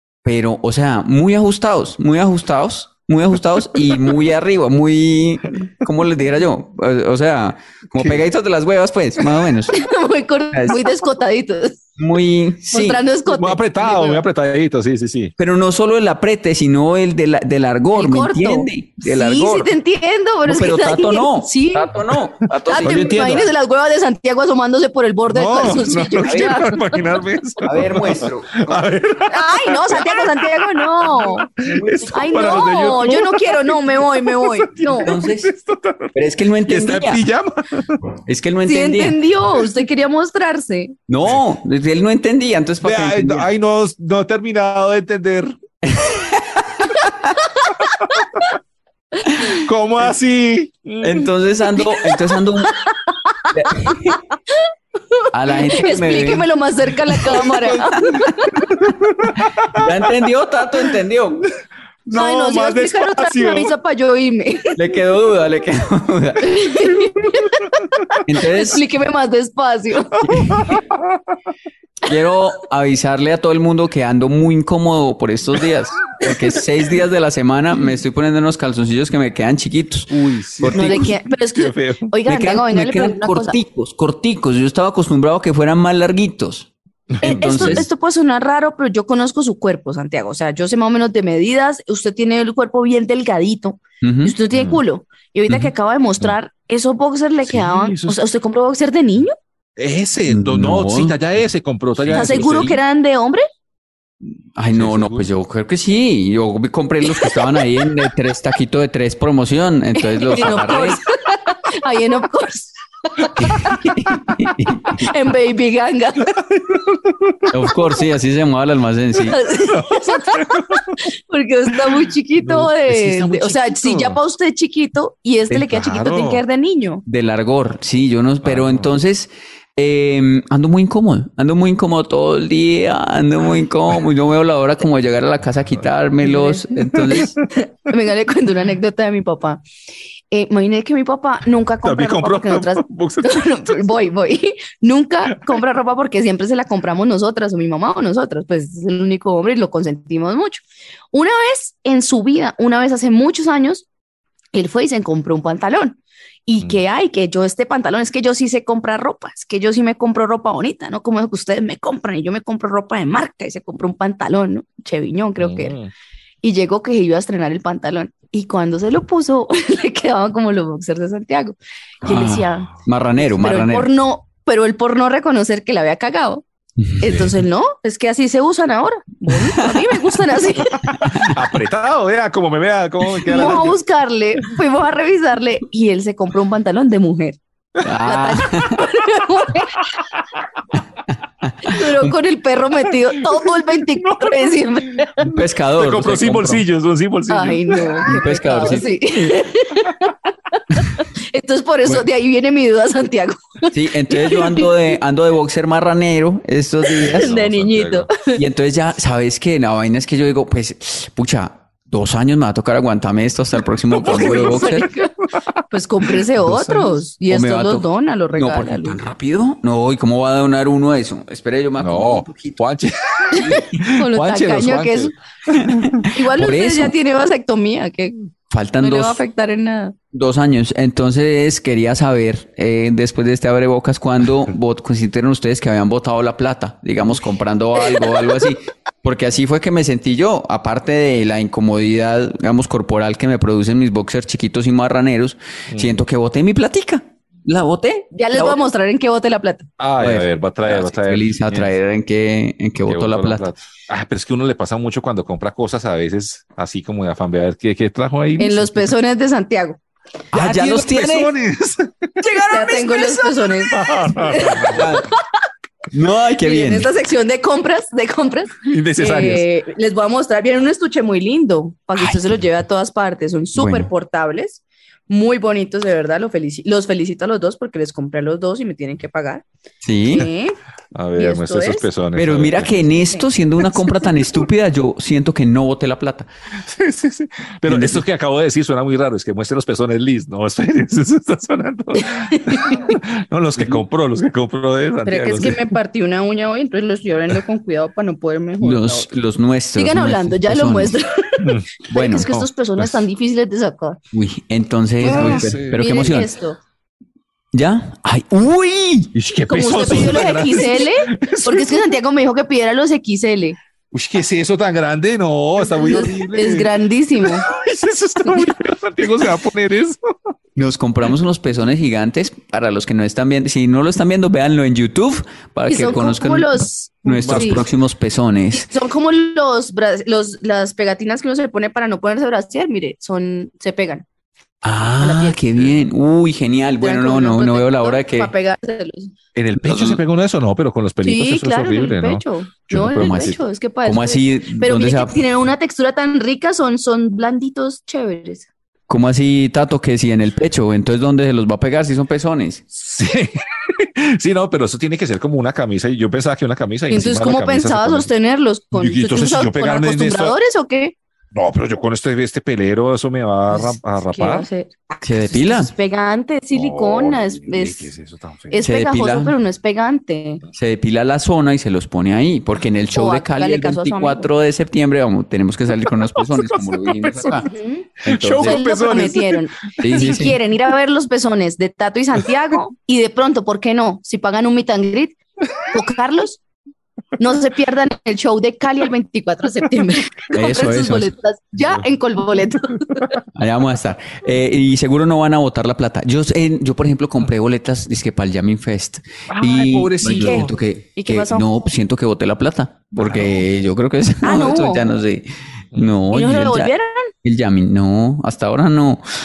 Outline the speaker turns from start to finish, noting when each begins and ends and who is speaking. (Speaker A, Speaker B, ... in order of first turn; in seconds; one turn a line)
Speaker A: 0.2-9.8
Speaker B: 7.9-8.2
Speaker C: 9.7-11.8
Speaker A: 10.5-10.8
Speaker A: 12.0-13.0
Speaker C: 12.7-14.2
Speaker B: 13.3-15.3
Speaker A: 15.4-19.7
Speaker C: 17.9-21.9
Speaker A: 20.4-23.5
Speaker C: 22.7-27.2
Speaker B: 22.8-23.5
Speaker B: 25.3-38.0
Speaker A: 26.2-26.5
Speaker A: 27.6-28.8
Speaker C: 29.3-31.5
Speaker A: 31.6-32.5
Speaker C: 32.1-35.1
Speaker A: 35.0-35.5
Speaker A: 36.1-37.2
Speaker A: 38.2-39.2
Speaker C: 38.6-41.0
Speaker A: 41.1-43.5
Speaker B: 42.8-45.6
Speaker A: 45.8-47.4
Speaker A: 49.3-49.5
Speaker B: 49.6-51.3
Speaker A: 51.0-52.8
Speaker C: 52.6-54.2
Speaker A: 53.5-54.2
Speaker C: 55.1-58.7
Speaker A: 55.3-56.5
Speaker B: 57.4-57.9
Speaker B: 58.7-59.9
Speaker A: 59.4-61.5
Speaker B: 62.0-63.7
Speaker C: 62.1-64.8
Speaker A: 64.8-66.5
Speaker C: 66.4-70.7
Speaker A: 68.2-68.8
Speaker B: 70.3-71.2
Speaker A: 72.0-81.1
Speaker B: 80.1-82.1
Speaker C: 80.7-83.5
Speaker A: 82.2-86.7
Speaker B: 87.1-87.9
Speaker A: 87.2-87.8
Speaker C: 87.2-99.3
Speaker A: 94.0-94.3
Speaker B: 94.5-94.8
Speaker B: 97.5-98.2
Speaker B: 99.8-102.8
Speaker A: 100.3-101.2
Speaker A: 102.0-102.8
Speaker C: 102.1-103.4
Speaker A: 104.2-111.0
Speaker B: 104.7-105.3
Speaker C: 110.0-113.8
Speaker A: 113.3-115.1
Speaker C: 115.0-116.4
Speaker B: 116.3-117.5
Speaker A: 117.5-119.4
Speaker C: 119.2-127.0
Speaker B: 119.7-120.9
Speaker B: 121.8-124.2
Speaker B: 125.7-126.4
Speaker A: 127.0-137.4
Speaker B: 128.4-129.0
Speaker C: 136.2-136.7
Speaker B: 137.1-137.4
Speaker C: 137.6-139.6
Speaker C: 140.3-153.8
Speaker B: 141.8-143.9
Speaker B: 145.3-145.6
Speaker C: 154.5-165.7
Speaker B: 165.4-165.9
Speaker C: 166.4-176.4
Speaker A: 172.0-173.9
Speaker C: 177.0-180.9
Speaker A: 179.3-179.7
Speaker A: 181.0-181.3
Speaker B: 181.0-183.8
Speaker C: 183.2-187.4
Speaker A: 187.8-188.8
Speaker C: 188.0-189.8
Speaker A: 191.4-192.1
Speaker C: 191.7-195.3
Speaker B: 194.0-194.5
Speaker A: 195.2-196.6
Speaker B: 195.8-198.0
Speaker C: 197.3-200.1
Speaker A: 198.1-198.8
Speaker C: 201.0-204.7
Speaker A: 203.7-207.3
Speaker B: 207.0-208.1
Speaker C: 207.0-208.4
Speaker A: 208.3-214.9
Speaker B: 214.0-214.7
Speaker C: 214.0-215.1
Speaker C: 215.7-219.0
Speaker B: 216.1-217.0
Speaker A: 217.3-222.6
Speaker B: 221.8-226.0
Speaker C: 223.3-225.1
Speaker A: 225.6-226.9
Speaker C: 226.1-228.2
Speaker A: 228.5-229.2
Speaker C: 228.8-229.9
Speaker A: 230.1-248.6
Speaker C: 237.9-238.3
Speaker B: 245.7-246.0
Speaker C: 248.1-249.7
Speaker B: 249.8-251.7
Speaker A: 250.0-253.5
Speaker B: 252.8-258.9
Speaker C: 258.4-259.8
Speaker A: 260.3-261.3
Speaker B: 260.3-265.0
Speaker C: 262.3-265.0
Speaker A: 264.7-265.1
Speaker A: 265.9-266.9
Speaker C: 266.4-279.4
Speaker B: 268.7-269.4
Speaker A: 272.0-272.4
Speaker A: 273.6-273.9
Speaker A: 279.8-280.3
Speaker C: 280.1-280.6
Speaker B: 280.9-282.8
Speaker C: 281.1-281.9
Speaker A: 282.1-286.3
Speaker C: 282.6-283.2
Speaker B: 286.6-295.8
Speaker A: 287.7-288.0
Speaker C: 292.0-293.0
Speaker C: 295.0-299.1
Speaker A: 298.6-301.0
Speaker C: 299.8-304.0
Speaker B: 301.4-301.7
Speaker A: 301.9-302.2
Speaker B: 302.2-303.0
Speaker A: 304.1-306.3
Speaker B: 305.0-305.8
Speaker C: 305.0-306.6
Speaker A: 307.5-309.1
Speaker B: 309.1-311.9
Speaker C: 309.5-313.6
Speaker B: 313.9-320.0
Speaker C: 315.7-317.5
Speaker A: 320.6-328.6
Speaker C: 325.7-327.6
Speaker B: 327.1-327.6
Speaker C: 328.5-334.0
Speaker A: 334.6-338.3
Speaker C: 335.0-335.4
Speaker C: 336.8-339.1
Speaker B: 339.4-343.4
Speaker A: 339.6-340.0
Speaker C: 341.0-348.5
Speaker A: 342.9-345.2
Speaker A: 348.9-352.6
Speaker B: 352.7-358.1
Speaker C: 356.9-360.9
Speaker B: 358.7-360.4
Speaker B: 361.3-364.5
Speaker C: 363.5-367.9
Speaker A: 365.0-365.7
Speaker B: 366.5-368.6
Speaker C: 368.5-370.4
Speaker A: 368.6-369.3
Speaker A: 370.5-377.5
Speaker C: 372.9-374.3
Speaker B: 375.8-379.5
Speaker C: 377.5-386.4
Speaker A: 378.1-378.6
Speaker A: 379.8-380.3
Speaker C: 387.2-393.1
Speaker A: 390.3-391.1
Speaker A: 393.4-406.7
Speaker B: 399.3-400.5
Speaker C: 400.0-401.5
Speaker B: 403.0-403.4
Speaker C: 404.2-404.9
Speaker C: 406.1-407.1
Speaker A: 407.2-409.0